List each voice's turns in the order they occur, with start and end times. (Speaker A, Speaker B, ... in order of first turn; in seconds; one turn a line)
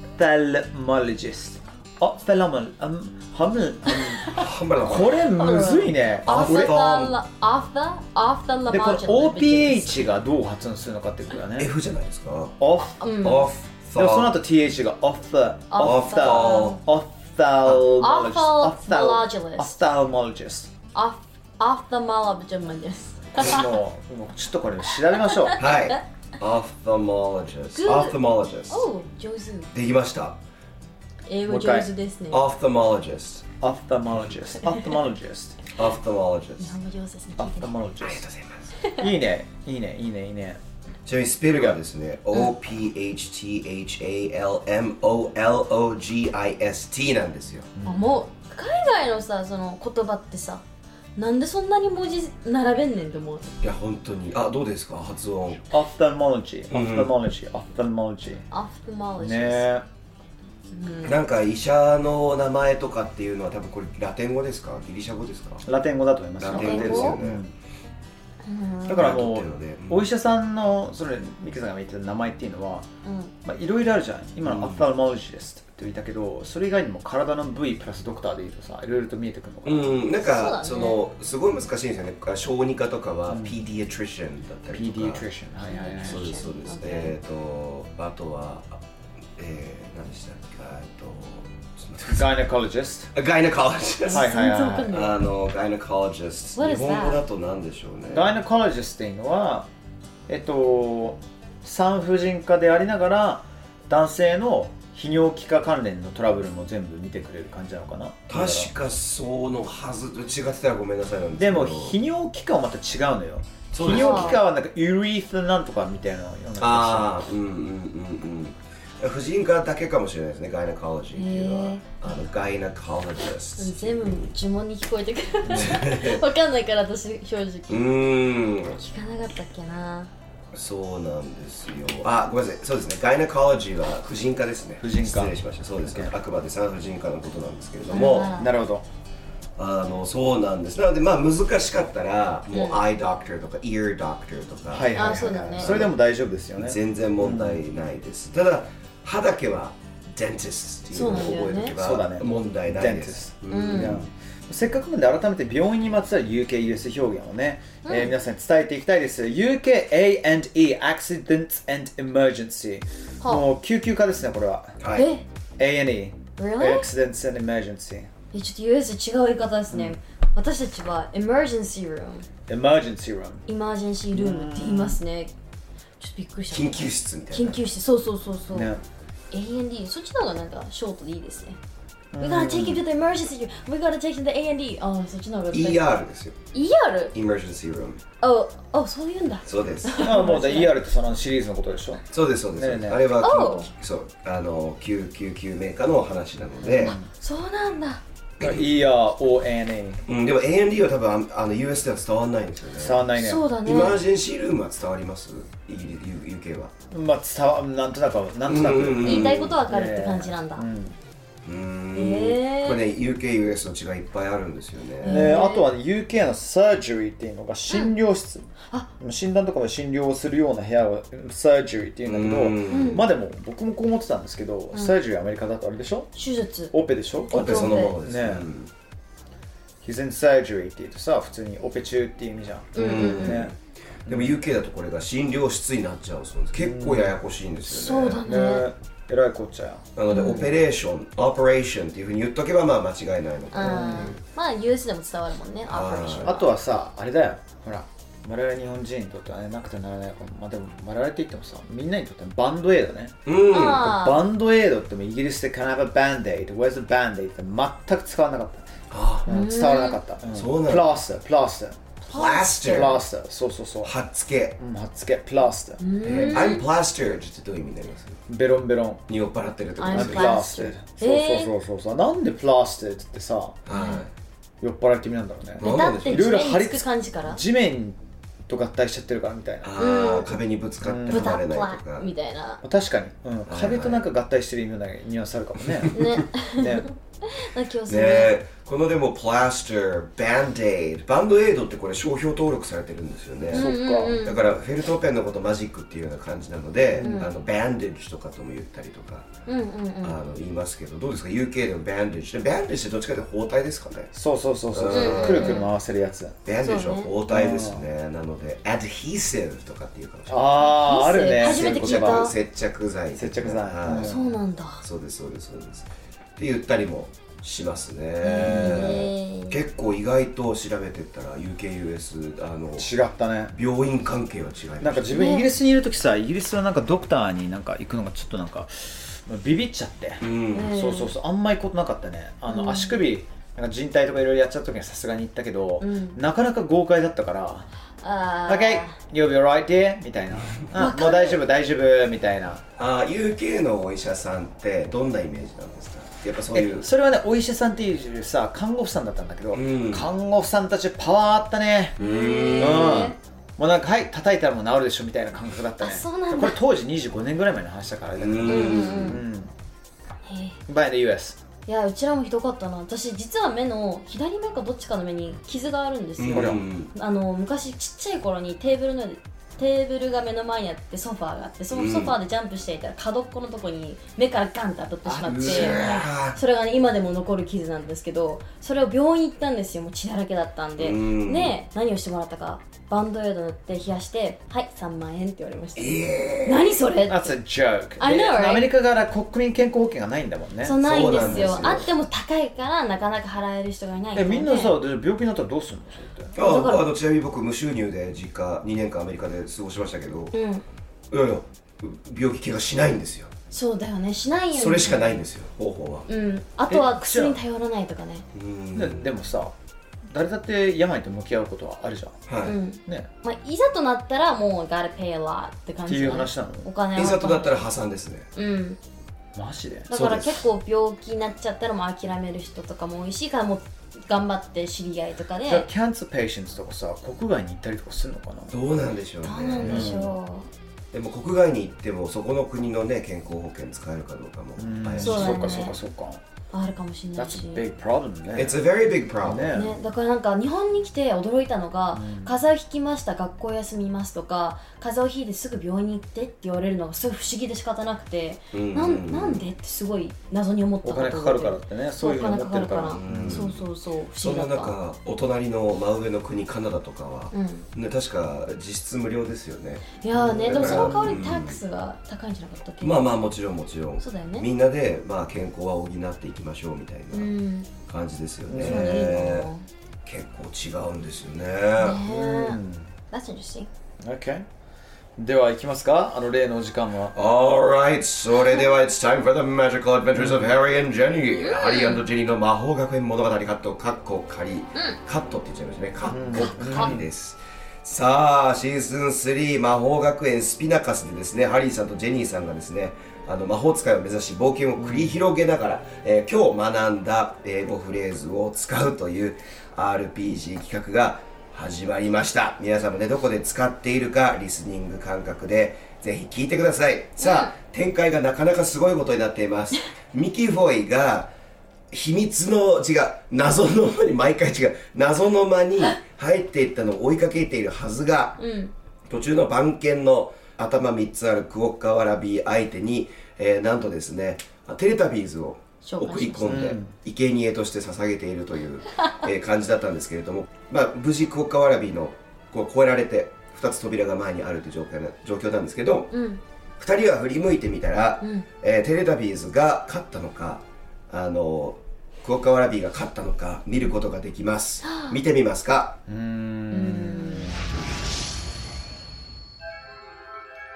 Speaker A: 0.2-4.3
Speaker B: 4.3-5.5
Speaker A: 4.8-6.8
Speaker C: 5.3-10.1
Speaker B: 6.3-7.2
Speaker A: 8.7-11.7
Speaker B: 11.6-12.6
Speaker A: 12.6-13.1
Speaker C: 13.0-13.5
Speaker B: 13.2-14.4
Speaker A: 13.9-20.7
Speaker C: 15.7-16.8
Speaker B: 15.8-16.8
Speaker C: 17.9-19.8
Speaker C: 20.9-23.7
Speaker A: 23.4-25.6
Speaker C: 25.4-25.7
Speaker B: 25.6-28.9
Speaker C: 27.7-28.2
Speaker C: 28.7-29.7
Speaker B: 29.7-30.4
Speaker C: 31.2-32.5
Speaker A: 31.4-31.9
Speaker B: 32.3-33.5
Speaker A: 33.6-35.6
Speaker B: 35.7-36.7
Speaker C: 36.6-37.9
Speaker A: 37.4-38.2
Speaker B: 38.0-38.8
Speaker A: 39.0-40.6
Speaker B: 41.0-47.7
Speaker A: 47.8-48.1
Speaker C: 47.8-50.6
Speaker C: 51.1-53.5
Speaker B: 53.6-55.7
Speaker A: 55.7-58.5
Speaker B: 56.7-57.1
Speaker C: 58.5-59.7
Speaker A: 59.2-59.8
Speaker C: 60.7-61.2
Speaker B: 61.0-65.6
Speaker A: 65.6-67.5
Speaker B: 66.4-67.4
Speaker C: 66.5-67.2
Speaker C: 68.4-69.1
Speaker A: 68.9-72.9
Speaker B: 68.9-70.0
Speaker C: 73.0-73.3
Speaker A: 73.4-80.0
Speaker B: 74.4-74.9
Speaker B: 79.6-85.3
Speaker C: 80.2-81.0
Speaker A: 83.3-83.5
Speaker A: 84.7-86.4
Speaker C: 85.6-87.1
Speaker B: 86.0-88.8
Speaker B: 89.4-92.4
Speaker A: 92.1-93.1
Speaker B: 93.1-94.3
Speaker C: 94.0-95.2
Speaker A: 94.1-95.0
Speaker B: 94.9-98.3
Speaker C: 96.5-97.2
Speaker A: 98.1-99.7
Speaker A: 100.3-108.7
Speaker B: 108.3-112.0
Speaker A: 111.4-117.2
Speaker B: 113.7-114.4
Speaker C: 113.8-114.4
Speaker B: 116.6-124.3
Speaker C: 121.1-121.9
Speaker C: 123.6-127.9
Speaker A: 125.5-125.8
Speaker B: 125.5-126.2
Speaker B: 127.7-128.8
Speaker C: 128.7-130.1
Speaker B: 130.5-138.4
Speaker A: 134.8-136.1
Speaker C: 137.9-138.5
Speaker A: 138.2-138.8
Speaker B: 139.6-146.0
Speaker C: 142.5-142.8
Speaker A: 144.7-147.6
Speaker C: 144.9-145.8
Speaker B: 146.5-154.1
Speaker C: 150.9-151.8
Speaker A: 150.9-164.8
Speaker C: 153.5-154.0
Speaker C: 157.8-158.2
Speaker C: 163.2-163.5
Speaker B: 164.8-165.1
Speaker C: 164.9-165.2
Speaker A: 165.6-168.1
Speaker C: 166.3-166.9
Speaker C: 168.3-172.2
Speaker A: 172.5-173.4
Speaker C: 173.4-175.3
Speaker A: 174.1-175.0
Speaker C: 176.0-178.7
Speaker B: 176.5-177.6
Speaker A: 178.5-178.8
Speaker C: 179.3-181.6
Speaker A: 182.1-182.8
Speaker C: 182.2-185.9
Speaker B: 185.5-186.4
Speaker C: 186.5-187.1
Speaker B: 187.1-188.0
Speaker C: 188.2-190.8
Speaker B: 189.4-190.1
Speaker A: 190.0-192.0
Speaker B: 192.1-196.9
Speaker A: 192.6-193.1
Speaker C: 193.2-193.7
Speaker A: 196.6-197.1
Speaker C: 196.8-198.0
Speaker A: 198.4-200.0
Speaker B: 200.1-203.0
Speaker A: 202.8-203.5
Speaker C: 203.1-204.0
Speaker B: 203.6-206.7
Speaker A: 206.9-211.0
Speaker B: 208.5-209.6
Speaker C: 209.0-210.6
Speaker B: 211.4-215.4
Speaker C: 211.9-212.8
Speaker C: 215.0-215.7
Speaker A: 215.0-218.5
Speaker A: 219.0-226.2
Speaker B: 222.1-223.0
Speaker C: 222.7-223.1
Speaker C: 226.1-226.7
Speaker A: 226.7-228.5
Speaker C: 227.2-228.0
Speaker B: 227.3-228.7
Speaker A: 229.8-233.5
Speaker C: 232.7-233.5
Speaker B: 232.7-238.3
Speaker A: 234.1-234.4
Speaker A: 236.6-237.1
Speaker C: 237.7-238.7
Speaker A: 238.2-240.5
Speaker B: 239.9-244.2
Speaker C: 240.1-240.4
Speaker C: 243.5-246.5
Speaker A: 243.6-244.1
Speaker B: 245.7-246.4
Speaker A: 246.2-258.7
Speaker B: 253.2-253.8
Speaker C: 253.5-254.2
Speaker B: 258.9-259.3
Speaker A: 259.2-261.8
Speaker C: 259.3-260.0
Speaker B: 260.3-260.9
Speaker B: 262.1-262.9
Speaker C: 262.1-263.0
Speaker A: 262.6-263.9
Speaker B: 263.8-264.6
Speaker A: 264.6-266.5
Speaker C: 265.8-266.6
Speaker B: 266.0-268.2
Speaker A: 268.3-269.0
Speaker B: 269.1-270.3
Speaker C: 269.8-271.5
Speaker A: 269.9-273.6
Speaker B: 273.7-274.1
Speaker C: 273.7-274.0
Speaker A: 274.6-280.3
Speaker B: 275.6-276.4
Speaker C: 275.6-277.4
Speaker B: 279.6-282.1
Speaker C: 279.8-280.3
Speaker A: 280.8-281.4
Speaker C: 281.1-282.6
Speaker A: 282.6-286.9
Speaker B: 283.5-284.0
Speaker C: 285.9-288.4
Speaker B: 287.9-299.2
Speaker A: 293.5-294.2
Speaker C: 293.5-294.4
Speaker C: 297.0-297.3
Speaker C: 299.4-300.2
Speaker B: 300.0-304.1
Speaker A: 304.1-306.4
Speaker B: 304.7-305.6
Speaker C: 304.9-305.7
Speaker B: 306.4-310.8
Speaker C: 306.6-307.1
Speaker A: 307.2-307.8
Speaker A: 310.3-312.3
Speaker C: 310.7-312.3
Speaker B: 311.4-314.2
Speaker A: 313.2-314.3
Speaker C: 313.9-314.8
Speaker B: 314.8-322.9
Speaker C: 318.2-319.6
Speaker A: 318.3-319.1
Speaker A: 322.8-323.6
Speaker B: 323.5-325.3
Speaker A: 324.8-337.7
Speaker C: 325.1-325.5
Speaker B: 330.2-330.8
Speaker C: 330.5-331.1
Speaker C: 332.5-333.0
Speaker C: 335.8-336.2
Speaker C: 338.0-338.9
Speaker A: 338.5-342.6
Speaker C: 340.7-341.4
Speaker B: 342.8-346.9
Speaker A: 346.5-352.0
Speaker B: 349.5-350.1
Speaker C: 352.0-353.2
Speaker B: 352.0-353.1
Speaker A: 352.6-359.5
Speaker C: 355.8-356.6
Speaker B: 358.2-359.2
Speaker C: 358.4-359.2
Speaker C: 360.2-360.6
Speaker A: 360.7-361.4
Speaker C: 361.7-387.4
Speaker B: 366.2-366.9
Speaker A: 366.3-366.6
Speaker B: 371.7-372.2
Speaker B: 375.1-376.4
Speaker B: 380.8-381.6
Speaker B: 385.8-386.8
Speaker A: 387.1-391.7
Speaker C: 388.0-388.7
Speaker C: 390.6-394.8
Speaker B: 390.8-391.9
Speaker A: 394.1-396.4
Speaker B: 396.4-400.4
Speaker C: 396.4-396.9
Speaker C: 400.3-400.6
Speaker B: 401.1-403.3
Speaker C: 403.5-405.2
Speaker B: 404.5-406.1
Speaker C: 406.1-408.2
Speaker A: 406.7-407.4
Speaker B: 408.3-409.1
Speaker A: 408.7-412.2
Speaker B: 412.3-412.6
Speaker C: 412.4-417.7
Speaker A: 412.7-413.1
Speaker A: 415.9-416.7
Speaker B: 416.9-418.3
Speaker C: 418.3-418.8
Speaker A: 419.4-419.9
Speaker C: 419.9-425.7
Speaker B: 419.9-420.4
Speaker A: 425.4-428.6
Speaker B: 428.5-429.9
Speaker C: 429.2-430.5
Speaker A: 429.6-430.1
Speaker B: 430.9-435.6
Speaker A: 434.6-436.2
Speaker C: 435.0-435.8
Speaker C: 436.5-437.6
Speaker A: 437.2-438.6
Speaker B: 438.3-439.7
Speaker A: 439.2-439.8
Speaker C: 439.5-454.8
Speaker A: 441.9-442.4
Speaker B: 448.5-449.5
Speaker A: 450.8-453.5
Speaker B: 452.8-453.6
Speaker B: 454.2-461.6
Speaker C: 457.3-457.7
Speaker C: 460.0-463.1
Speaker A: 460.1-461.2
Speaker B: 462.8-467.3
Speaker C: 464.0-464.5
Speaker C: 467.1-467.7
Speaker B: 467.9-469.5
Speaker A: 468.5-469.3
Speaker C: 468.5-469.6
Speaker B: 470.1-472.0
Speaker C: 471.8-473.7
Speaker A: 472.1-472.9
Speaker A: 474.0-474.4
Speaker A: 475.2-477.1
Speaker B: 477.1-511.3
Speaker C: 481.4-482.1
Speaker A: 486.1-487.1
Speaker C: 486.3-486.9
Speaker A: 494.8-495.2
Speaker C: 507.2-507.5
Speaker B: 511.9-518.4
Speaker C: 518.4-518.7
Speaker B: 519.1-536.1
Speaker C: 525.8-526.6
Speaker A: 526.5-526.9
Speaker C: 536.1-536.4
Speaker B: 536.8-546.0
Speaker C: 538.2-538.5
Speaker C: 544.8-545.2
Speaker A: 546.1-547.6
Speaker C: 546.7-547.5